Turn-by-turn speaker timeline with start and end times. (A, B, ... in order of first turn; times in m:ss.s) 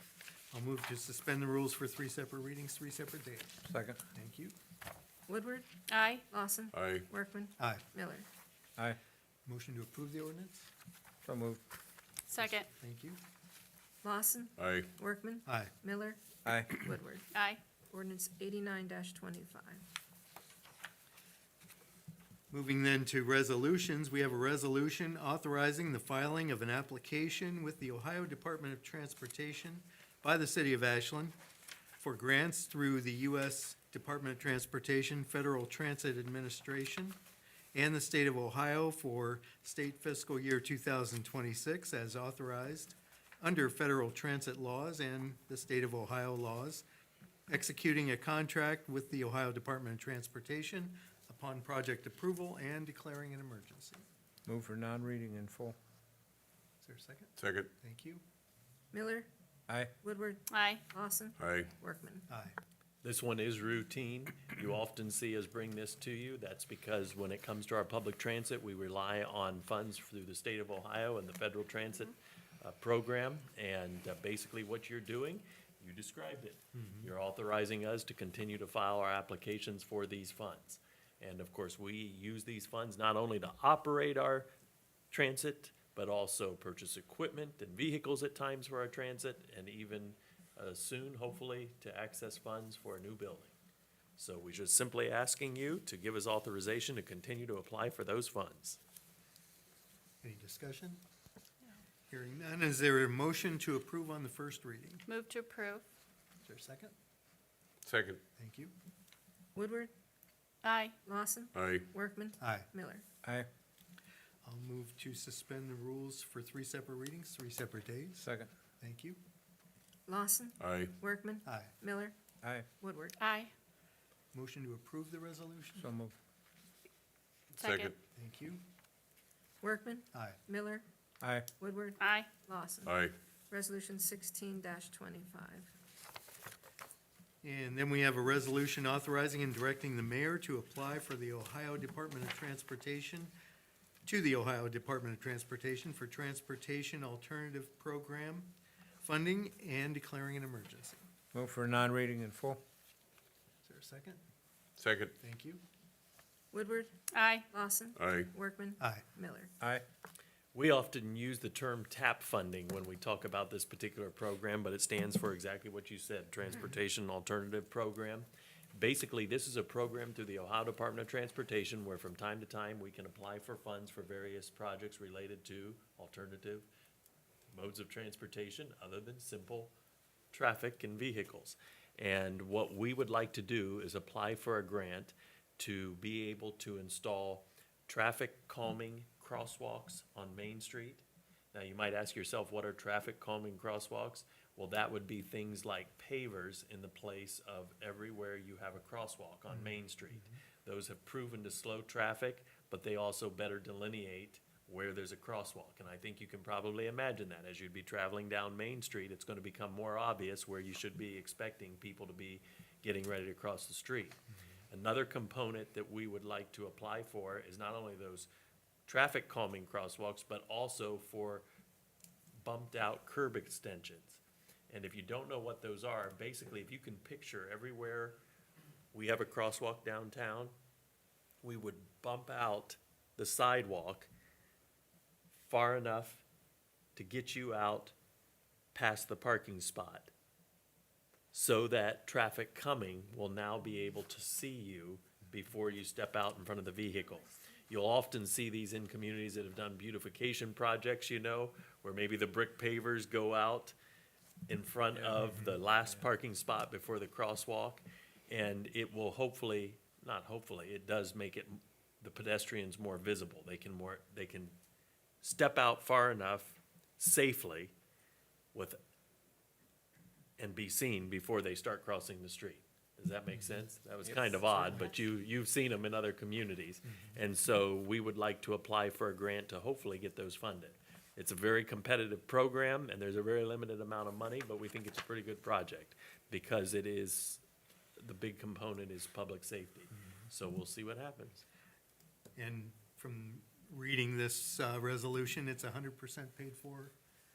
0:00.5-0:03.6 A
0:03.6-0:04.0 B
0:04.1-0:04.5 A
0:05.3-0:05.7 C
0:05.9-0:06.2 D
0:06.3-0:08.2 C
0:06.7-0:07.1 E
0:09.4-0:10.6 A
0:11.2-0:11.6 B
0:12.3-0:12.7 D
0:12.4-0:13.2 A
0:14.0-0:17.2 C
0:14.6-0:14.9 E
0:15.4-0:15.7 A
0:16.4-0:16.7 B
0:17.3-0:17.6 D
0:17.9-0:19.8 C
0:22.5-0:31.3 A
0:32.0-0:37.2 A
0:37.7-0:46.8 A
0:47.5-0:54.0 A
0:54.5-0:55.8 B
0:56.8-0:58.2 A
0:57.4-0:57.7 E
0:58.9-0:59.3 C
1:00.0-1:02.2 C
1:00.5-1:00.8 D
1:01.4-1:01.7 E
1:02.3-1:02.6 A
1:03.0-1:24.5 F
1:16.8-1:17.1 A
1:25.1-1:33.5 F
1:34.2-1:38.8 F
1:40.2-1:41.0 A
1:42.1-1:45.0 A
1:45.1-1:45.8 D
1:46.4-1:46.9 A
1:47.8-1:48.2 E
1:48.4-1:48.7 A
1:49.6-1:49.9 C
1:50.6-1:50.9 D
1:51.0-1:53.0 C
1:51.5-1:51.8 E
1:52.4-1:52.7 A
1:54.4-1:58.2 A
1:58.2-1:58.5 B
1:58.8-1:59.2 A
2:00.1-2:02.1 C
2:00.6-2:00.9 E
2:01.4-2:01.7 A
2:02.4-2:02.7 B
2:02.8-2:03.2 C
2:03.2-2:03.5 D
2:04.3-2:05.9 A
2:05.8-2:06.1 B
2:07.5-2:07.9 D
2:07.6-2:07.9 E
2:08.1-2:08.6 A
2:09.6-2:10.8 C
2:11.2-2:11.5 B
2:11.6-2:13.0 C
2:12.0-2:12.3 D
2:12.8-2:13.1 E
2:13.5-2:15.7 C
2:17.4-2:23.3 A
2:24.0-2:31.0 A
2:31.3-2:32.6 B
2:33.6-2:34.2 A
2:34.8-2:35.1 E
2:35.2-2:35.6 A
2:36.5-2:39.5 C
2:37.1-2:37.4 D
2:38.0-2:38.3 E
2:40.5-2:56.7 F
2:57.5-2:59.7 F
3:00.3-3:38.3 F
3:19.5-3:20.3 A
3:38.9-3:41.4 F
3:42.4-3:48.2 F
3:48.9-3:50.5 F
3:51.4-3:54.1 F
3:55.3-3:56.2 F
3:57.0-3:57.9 F
3:58.7-4:00.1 F
4:01.3-4:13.7 F
4:14.5-4:24.6 F
4:25.2-4:27.7 F
4:28.5-4:28.8 F
4:30.4-4:47.4 F
4:34.4-4:34.8 B
4:48.0-4:51.4 F
4:52.4-4:56.9 A